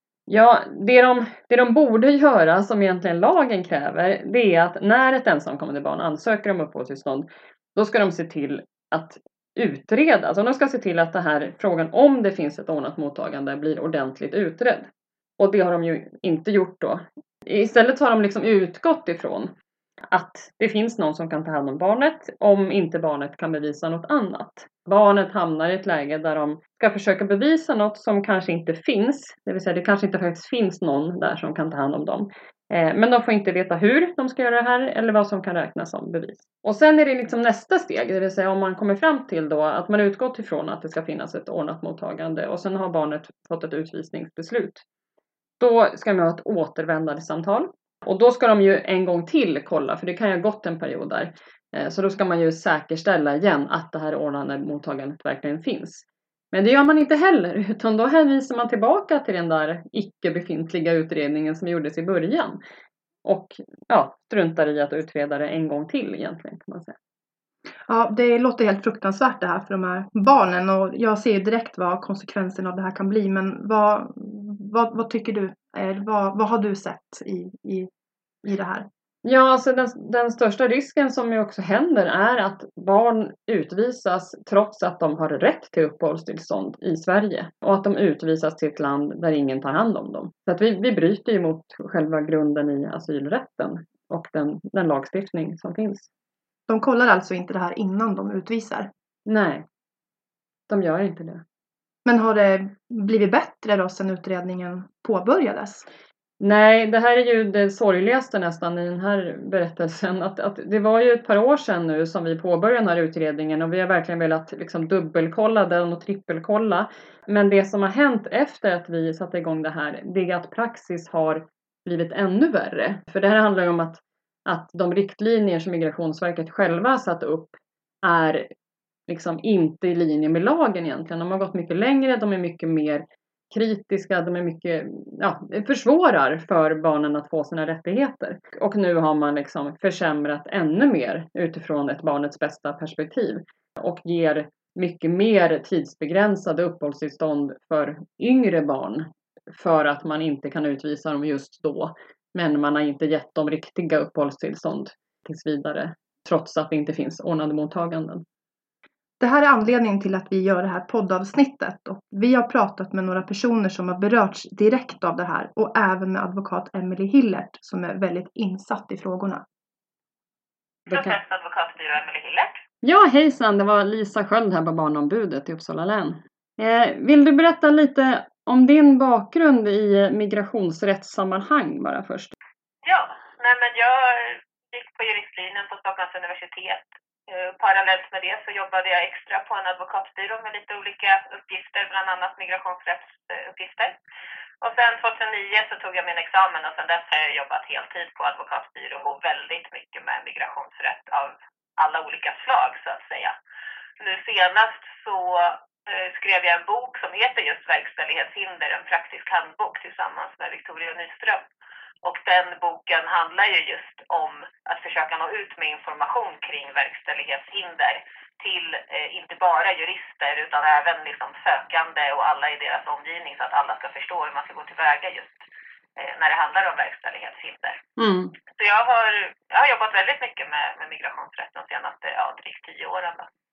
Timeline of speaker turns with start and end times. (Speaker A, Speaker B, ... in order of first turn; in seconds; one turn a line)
Speaker A: 0.3-19.5
Speaker A: 20.1-44.8
Speaker A: 45.6-62.6
Speaker A: 63.2-67.0
Speaker B: 67.9-77.9
Speaker B: 78.4-78.9
Speaker A: 79.2-96.1
Speaker B: 96.7-98.9
Speaker A: 99.3-99.7
Speaker A: 100.7-101.4
Speaker B: 102.0-105.9
Speaker A: 106.4-128.5
Speaker A: 129.1-158.2
Speaker B: 159.2-169.4
Speaker A: 170.9-171.2
Speaker C: 170.9-172.6
Speaker A: 172.8-182.3
Speaker C: 182.8-194.0
Speaker C: 194.6-203.3
Speaker C: 204.0-211.4
Speaker C: 212.0-225.4
Speaker C: 226.0-227.8
Speaker A: 228.0-228.3
Speaker C: 228.5-233.3